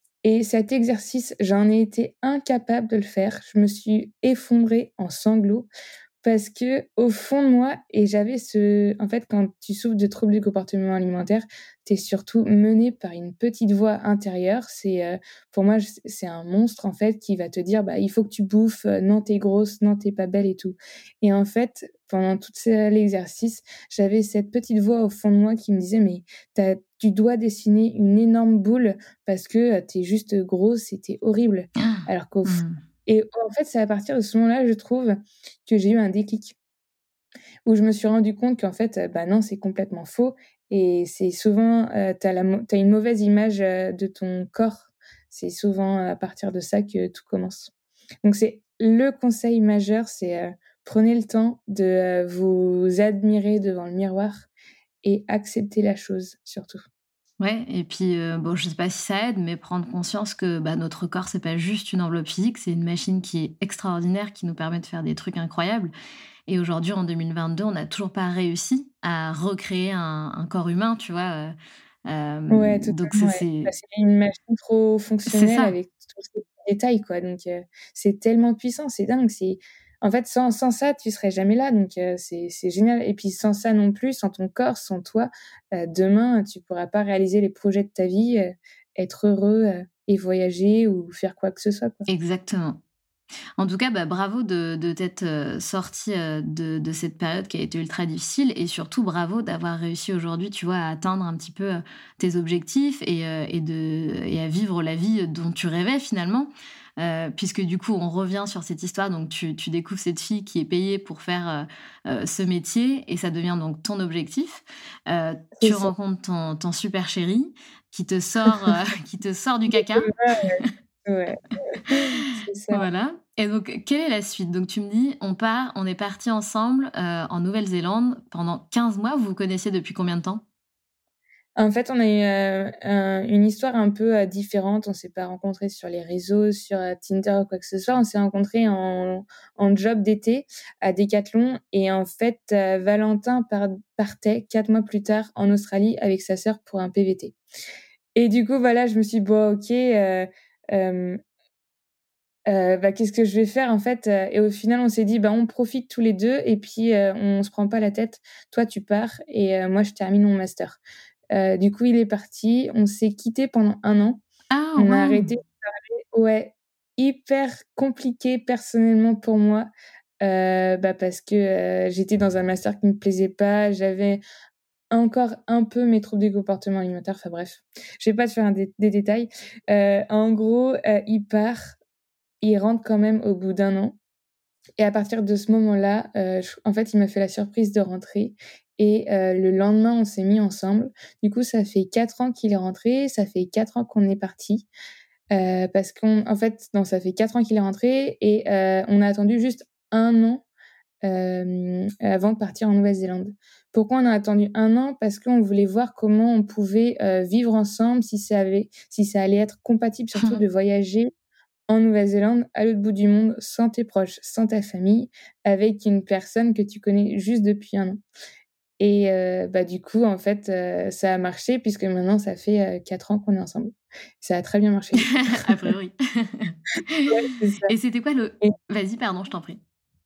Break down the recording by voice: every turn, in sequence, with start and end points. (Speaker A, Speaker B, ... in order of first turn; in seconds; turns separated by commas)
Speaker A: 0.2-5.7, Speaker A: 6.2-36.6, Speaker B: 31.8-32.8, Speaker A: 37.7-47.7, Speaker A: 48.2-54.5, Speaker A: 55.0-56.8, Speaker B: 57.4-65.9, Speaker B: 66.5-71.5, Speaker B: 72.1-73.7, Speaker A: 72.5-92.0, Speaker B: 75.3-75.7, Speaker B: 92.1-92.8, Speaker B: 93.6-120.7, Speaker A: 115.6-115.9, Speaker A: 119.7-122.9, Speaker B: 121.9-130.4, Speaker A: 131.6-147.4, Speaker A: 148.2-151.2, Speaker A: 152.5-160.8, Speaker A: 161.3-164.2, Speaker B: 164.5-165.3, Speaker A: 164.8-169.7, Speaker A: 170.2-174.2, Speaker A: 174.9-181.8, Speaker A: 182.4-184.0, Speaker A: 184.8-194.7, Speaker A: 195.3-200.4, Speaker A: 201.0-211.1, Speaker A: 211.7-218.0, Speaker A: 218.8-225.7, Speaker B: 225.0-227.1, Speaker A: 227.1-227.7, Speaker B: 227.7-229.6